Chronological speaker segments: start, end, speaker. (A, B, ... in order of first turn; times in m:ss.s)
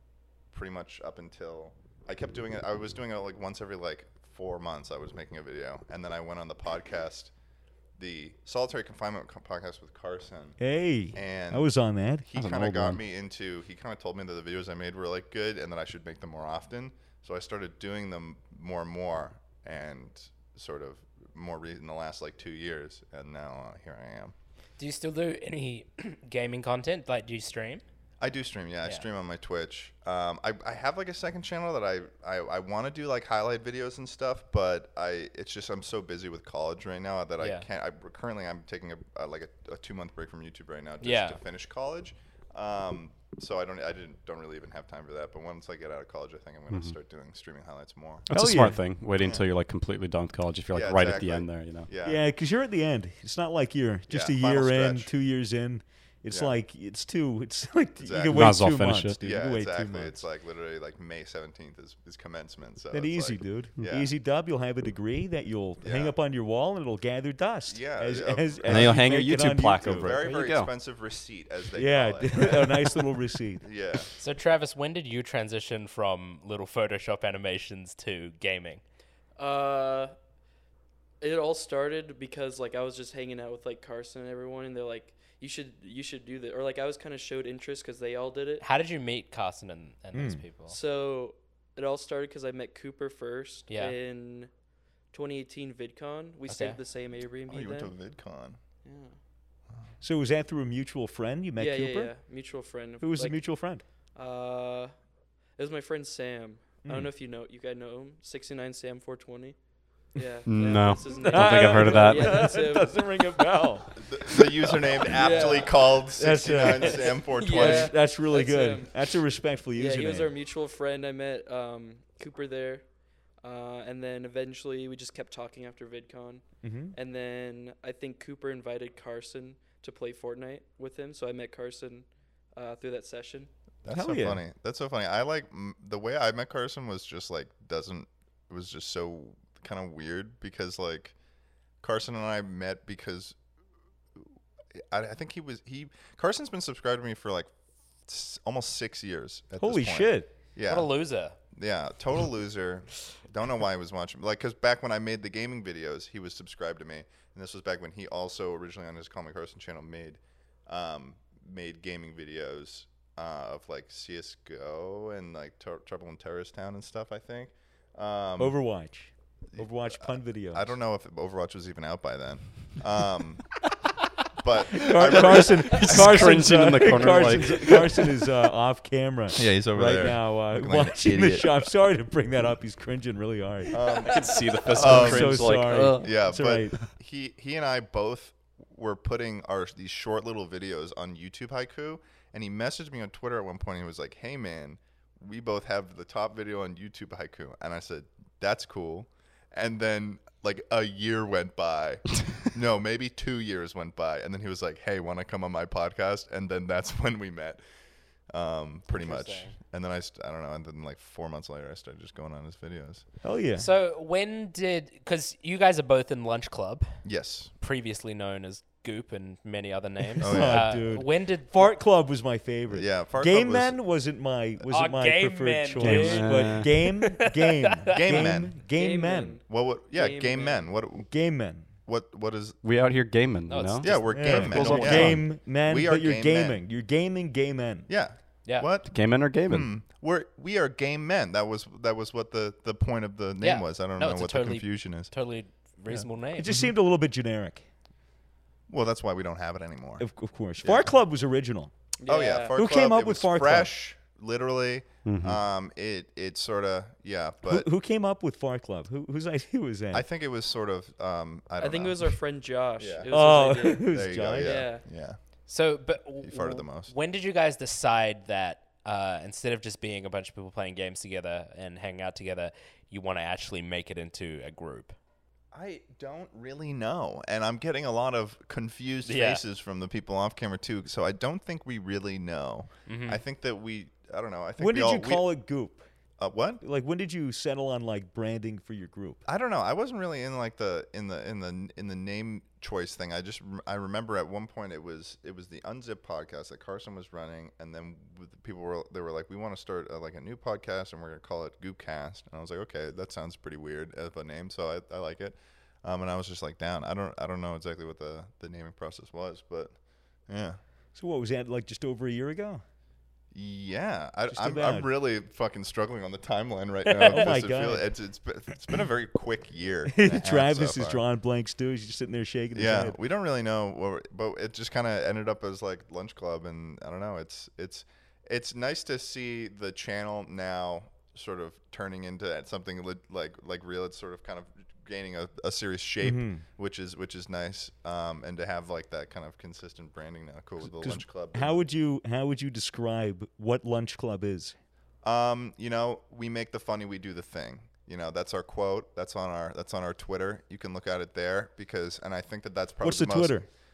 0:00.5-0:07.3 A
0:08.0-0:10.6 A
0:10.6-0:12.3 B
0:11.1-0:11.7 A
0:12.2-0:24.3 A
0:12.3-0:13.0 C
0:24.8-0:27.8 D
0:28.2-0:48.3 A
0:37.4-0:37.6 D
0:41.0-0:41.4 D
0:48.3-0:51.9 C
0:48.3-0:48.8 B
0:49.2-0:49.5 A
0:50.7-0:52.2 A
0:52.0-1:00.2 B
0:54.1-0:55.1 A
0:56.3-0:56.6 A
0:58.0-1:04.1 A
0:58.3-0:59.2 C
1:02.9-1:10.2 B
1:05.8-1:06.1 A
1:07.7-1:09.2 A
1:08.7-1:10.7 C
1:09.8-1:12.9 A
1:11.7-1:14.0 B
1:13.6-1:14.1 A
1:14.2-1:18.8 D
1:19.4-1:20.1 E
1:21.2-1:28.6 E
1:28.6-1:30.8 D
1:30.1-1:30.4 B
1:30.7-1:34.5 E
1:33.7-1:33.9 D
1:35.1-1:37.9 E
1:36.5-1:36.8 D
1:37.5-1:38.6 A
1:38.8-1:39.1 E
1:40.0-1:42.1 B
1:41.6-1:43.5 E
1:43.0-1:43.8 B
1:44.1-1:44.9 E
1:45.6-1:49.6 E
1:46.8-1:47.1 B
1:50.1-1:53.4 E
1:50.4-1:52.5 C
1:51.1-1:55.6 B
1:54.0-1:57.9 A
1:55.0-1:59.2 E
1:56.2-2:00.3 B
1:59.7-2:02.8 E
2:03.4-2:13.5 E
2:06.6-2:07.0 B
2:13.8-2:21.1 A
2:13.9-2:14.4 B
2:21.8-2:23.3 A
2:24.9-2:27.5 A
2:28.0-2:30.9 A
2:29.6-2:30.3 B
2:30.7-2:31.4 D
2:31.5-2:48.6 A
2:48.4-2:50.7 B
2:49.5-2:53.6 A
2:54.4-2:57.6 A
2:54.7-3:04.0 B
2:55.1-2:58.0 C
2:59.3-3:01.6 A
3:01.0-3:01.4 C
3:03.7-3:27.6 A
3:03.9-3:06.2 C
3:04.6-3:06.8 B
3:28.3-3:33.0 A
3:28.9-3:29.5 D
3:33.2-3:33.7 B
3:33.6-3:37.0 D
3:37.0-3:37.5 A
3:37.6-3:41.7 D
3:40.2-3:49.4 B
3:40.2-3:40.8 A
3:42.7-3:43.8 A
3:44.7-3:48.3 D
3:45.8-3:46.7 C
3:47.9-3:48.6 A
3:48.7-3:50.7 E
3:49.5-3:51.1 A
3:51.1-3:51.7 B
3:51.8-3:52.6 A
3:52.6-3:55.2 C
3:53.5-3:55.1 D
3:53.8-3:56.6 A
3:54.1-3:57.9 B
3:57.9-4:05.1 A
3:58.9-3:59.7 C
4:03.4-4:06.5 D
4:05.9-4:06.7 A
4:06.4-4:07.6 B
4:08.7-4:10.1 A
4:10.0-4:11.7 B
4:10.6-4:10.9 A
4:12.0-4:12.7 E
4:12.0-4:17.7 A
4:12.5-4:13.7 B
4:15.0-4:15.4 C
4:17.4-4:20.0 B
4:19.9-4:22.1 A
4:21.6-4:24.8 E
4:22.8-4:23.1 A
4:23.1-4:24.6 B
4:23.8-4:25.2 A
4:25.5-4:34.9 D
4:26.2-4:26.9 A
4:35.5-4:45.2 A
4:39.0-4:39.4 D
4:42.9-4:43.2 D
4:44.6-4:45.8 B
4:46.2-4:46.6 A
4:46.6-4:49.2 B
4:49.2-5:09.7 A
5:10.3-5:10.6 A
5:10.9-5:12.6 B
5:13.3-5:21.0 A
5:14.3-5:14.9 B
5:16.8-5:17.2 D
5:17.1-5:17.9 B
5:19.9-5:23.0 B
5:22.5-5:41.6 A
5:36.0-5:36.4 B
5:40.7-5:44.5 B
5:45.0-5:53.4 A
5:52.8-5:53.5 B